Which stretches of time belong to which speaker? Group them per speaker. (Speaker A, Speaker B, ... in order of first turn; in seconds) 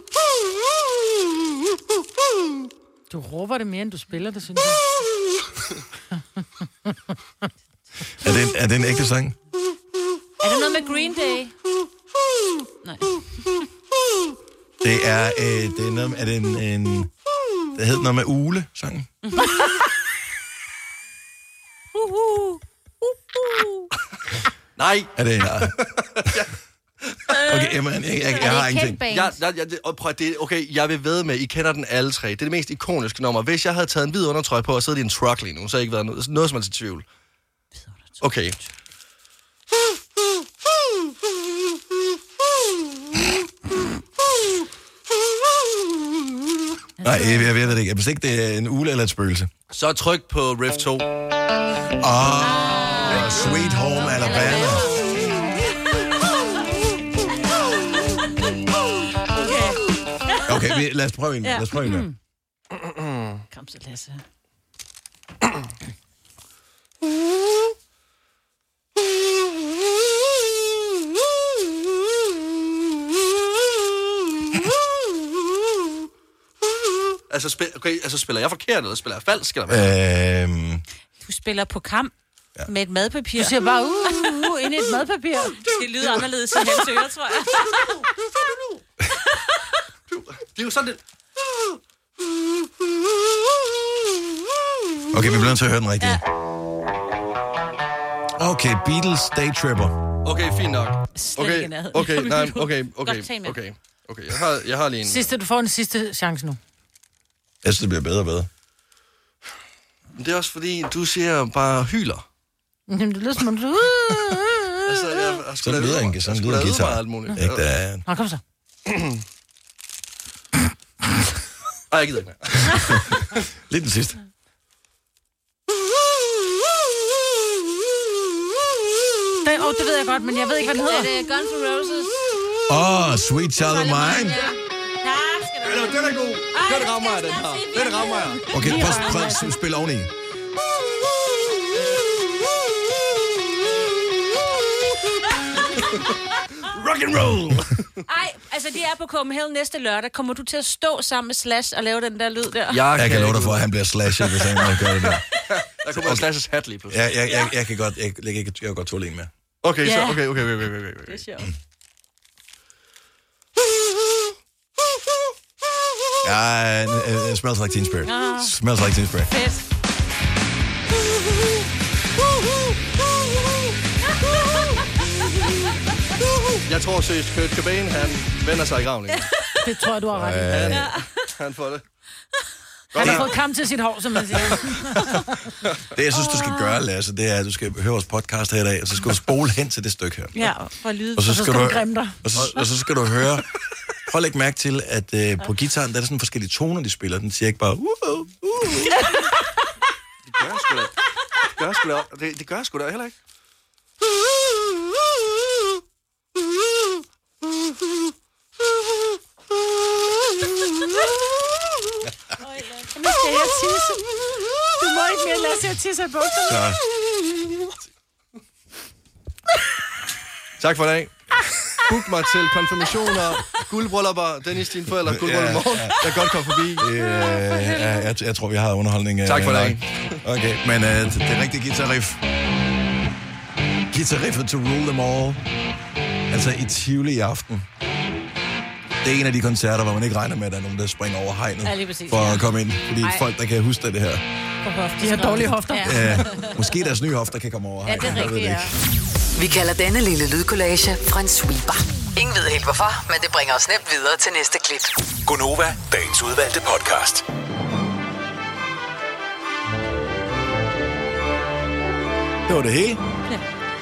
Speaker A: 3.1-4.9, 83.3-85.6, 105.0-106.6, 112.9-114.9, 118.1-118.4, 129.4-131.1, 138.6-139.4, 179.6-180.6, 183.0-185.3, 191.2-192.2, 213.0-214.0, 214.7-216.7, 245.0-246.2
Speaker B: 8.2-9.4, 14.8-17.1, 17.7-19.1, 25.1-25.8, 27.4-29.0, 47.0-49.5, 52.0-54.9, 60.5-62.1, 79.7-80.8, 95.1-96.2, 98.4-100.0, 107.6-108.5, 115.6-118.0, 122.7-124.2, 132.7-134.5, 138.5-140.1, 152.9-155.3, 155.9-156.3, 156.9-159.3, 166.2-169.3, 180.2-180.9, 183.0-183.3, 185.9-190.5, 191.1-193.5, 194.1-199.0, 216.5-216.8, 225.0-226.2, 226.8-232.2, 233.9-235.4, 236.3-237.7, 239.0-244.2, 245.8-248.7, 262.5-263.0
Speaker C: 10.4-11.5, 12.8-13.6, 19.2-19.9, 22.0-22.6, 23.4-23.9, 27.3-29.4, 37.8-38.7, 47.0-47.5, 52.6-55.5, 59.3-60.8, 61.4-62.2, 63.5-64.2, 81.2-82.1, 82.7-84.5, 85.6-88.0, 101.1-103.6, 130.6-132.3, 133.6-139.5, 148.1-152.9, 159.8-160.3, 161.1-161.5, 168.1-168.5, 169.3-169.7, 179.1-179.5, 180.7-181.3, 186.1-186.8, 190.4-191.4, 212.4-213.5, 241.6-242.5, 244.6-246.7, 247.8-248.7
Speaker D: 24.8-26.5, 27.0-27.4, 29.0-37.0, 38.2-38.6, 49.7-51.1, 62.7-63.4, 77.3-80.0, 85.8-86.9, 90.1-91.0, 100.2-105.3, 110.2-112.2, 114.9-117.6, 118.9-119.2, 121.9-122.8, 135.6-138.4, 146.6-147.8, 152.7-157.2, 159.6-161.3, 176.7-179.3, 180.5-181.8, 182.9-183.4, 200.3-203.2, 220.6-221.2, 221.9-226.9, 229.2-230.2
Speaker E: 249.4-255.0
Speaker F: 255.2-257.3